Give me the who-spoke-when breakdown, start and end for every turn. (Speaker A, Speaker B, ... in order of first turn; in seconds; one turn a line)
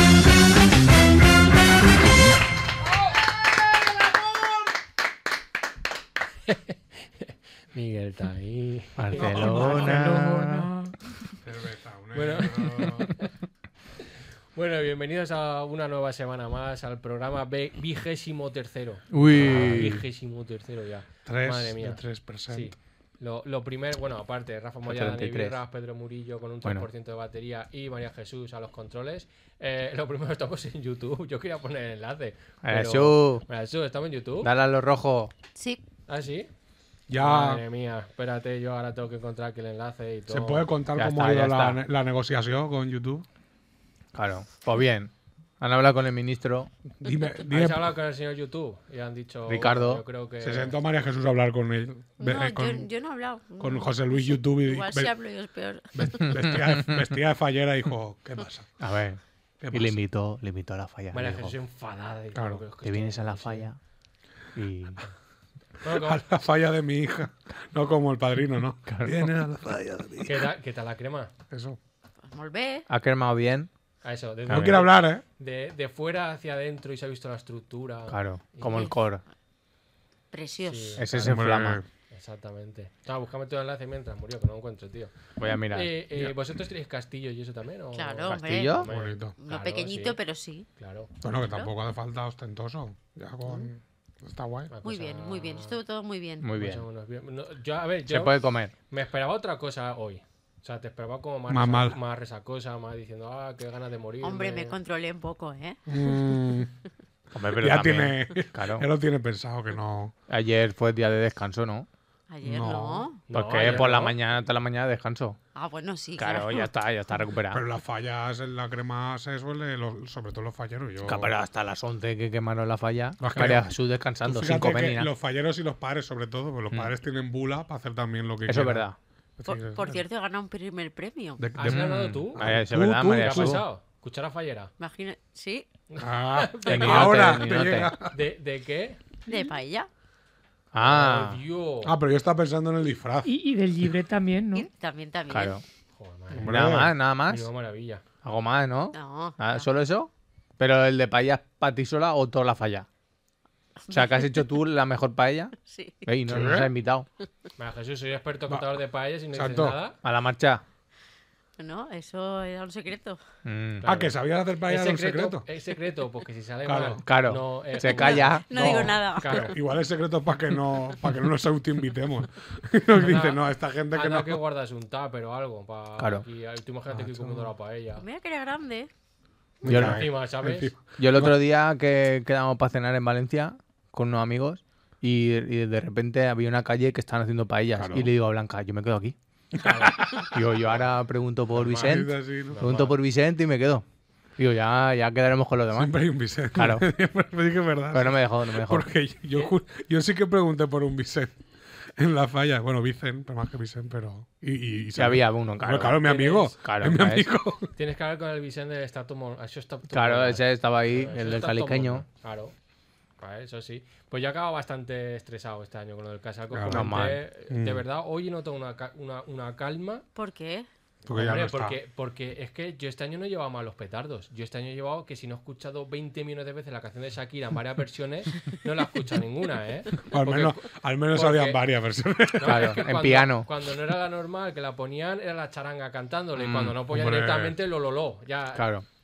Speaker A: 6.5-10.2
Speaker B: 9.0-10.7
Speaker C: 9.1-10.9
Speaker D: 11.4-13.1
Speaker A: 12.1-13.3
Speaker A: 14.6-34.5
Speaker B: 19.1-20.0
Speaker D: 19.4-19.9
Speaker D: 21.3-22.7
Speaker B: 24.9-25.6
Speaker B: 32.6-33.5
Speaker B: 34.4-35.3
Speaker E: 35.6-35.8
Speaker A: 36.1-36.5
Speaker D: 37.1-37.6
Speaker A: 37.2-40.7
Speaker D: 40.3-43.2
Speaker B: 41.0-41.8
Speaker B: 44.1-46.7
Speaker D: 47.0-48.0
Speaker A: 47.5-50.8
Speaker B: 49.5-50.0
Speaker D: 50.4-52.9
Speaker E: 52.2-56.3
Speaker D: 53.6-55.1
Speaker D: 56.0-58.7
Speaker B: 56.3-57.0
Speaker B: 58.8-59.2
Speaker D: 59.6-60.0
Speaker B: 59.7-61.5
Speaker A: 61.1-63.7
Speaker D: 62.3-62.6
Speaker B: 62.8-63.8
Speaker B: 64.5-65.0
Speaker A: 65.8-66.2
Speaker D: 65.9-70.5
Speaker B: 68.9-69.3
Speaker A: 70.2-71.3
Speaker D: 71.5-71.8
Speaker E: 72.2-72.9
Speaker B: 72.9-73.7
Speaker A: 74.0-78.9
Speaker D: 74.5-75.2
Speaker B: 78.1-79.2
Speaker E: 78.6-79.0
Speaker E: 80.3-81.0
Speaker A: 80.6-81.5
Speaker B: 81.0-81.8
Speaker D: 81.2-81.9
Speaker A: 82.1-85.1
Speaker B: 85.4-85.9
Speaker A: 85.7-90.2
Speaker E: 87.9-90.7
Speaker B: 88.3-88.9
Speaker D: 88.8-89.3
Speaker A: 90.8-91.1
Speaker D: 91.2-94.7
Speaker E: 91.4-91.7
Speaker A: 94.7-95.8
Speaker E: 94.8-96.5
Speaker B: 96.4-96.8
Speaker A: 96.5-98.4
Speaker B: 98.1-98.7
Speaker A: 98.9-104.8
Speaker D: 101.5-102.0
Speaker E: 104.2-106.2
Speaker D: 105.9-106.7
Speaker B: 107.3-108.9
Speaker D: 107.5-110.1
Speaker B: 110.3-111.9
Speaker E: 112.3-113.2
Speaker D: 112.4-113.1
Speaker A: 113.3-114.2
Speaker B: 113.3-115.4
Speaker E: 115.5-116.7
Speaker B: 116.2-117.6
Speaker D: 117.5-121.3
Speaker B: 121.1-125.1
Speaker D: 123.2-130.0
Speaker B: 128.5-129.0
Speaker E: 129.4-131.5
Speaker D: 131.4-133.6
Speaker A: 131.6-132.5
Speaker B: 131.6-133.7
Speaker A: 133.2-134.7
Speaker E: 134.8-135.7
Speaker A: 135.9-137.4
Speaker D: 136.0-138.2
Speaker B: 136.7-137.9
Speaker A: 138.0-139.0
Speaker E: 139.3-139.9
Speaker B: 140.7-141.4
Speaker A: 140.8-142.0
Speaker D: 141.8-143.9
Speaker C: 143.2-144.7
Speaker E: 144.5-145.6
Speaker B: 145.3-145.6
Speaker A: 146.0-148.0
Speaker D: 146.3-147.0
Speaker B: 146.4-147.5
Speaker B: 148.2-152.9
Speaker E: 148.9-149.7
Speaker E: 153.9-154.5
Speaker B: 153.9-157.1
Speaker E: 155.6-156.1
Speaker D: 156.3-156.7
Speaker A: 157.6-160.0
Speaker D: 158.5-158.8
Speaker D: 159.3-159.8
Speaker B: 160.0-160.6
Speaker E: 161.6-163.2
Speaker B: 163.4-163.9
Speaker A: 163.8-169.6
Speaker D: 163.8-165.5
Speaker D: 166.7-167.0
Speaker B: 167.1-169.0
Speaker E: 167.8-169.5
Speaker D: 169.2-174.4
Speaker A: 172.9-178.0
Speaker B: 176.0-176.2
Speaker D: 176.9-177.5
Speaker E: 178.0-178.9
Speaker D: 179.6-181.4
Speaker A: 179.6-180.7
Speaker B: 179.7-180.0
Speaker B: 181.0-189.2
Speaker D: 187.8-188.1
Speaker D: 189.6-190.3
Speaker A: 189.6-190.1
Speaker B: 190.2-193.8
Speaker A: 191.5-193.0
Speaker D: 191.8-192.6
Speaker B: 194.4-196.0
Speaker D: 195.7-201.4
Speaker B: 196.5-196.9
Speaker B: 197.9-198.9
Speaker D: 202.0-207.7
Speaker B: 204.9-207.3
Speaker A: 206.0-206.5
Speaker A: 207.8-212.5
Speaker B: 209.9-212.1
Speaker A: 213.2-220.1
Speaker D: 216.5-217.8
Speaker B: 216.7-217.2
Speaker E: 220.2-220.7
Speaker D: 221.1-221.8
Speaker A: 221.1-231.6
Speaker D: 230.0-232.8
Speaker A: 232.4-238.7
Speaker B: 232.4-233.5
Speaker B: 236.4-236.8
Speaker D: 236.9-237.6
Speaker B: 238.6-238.8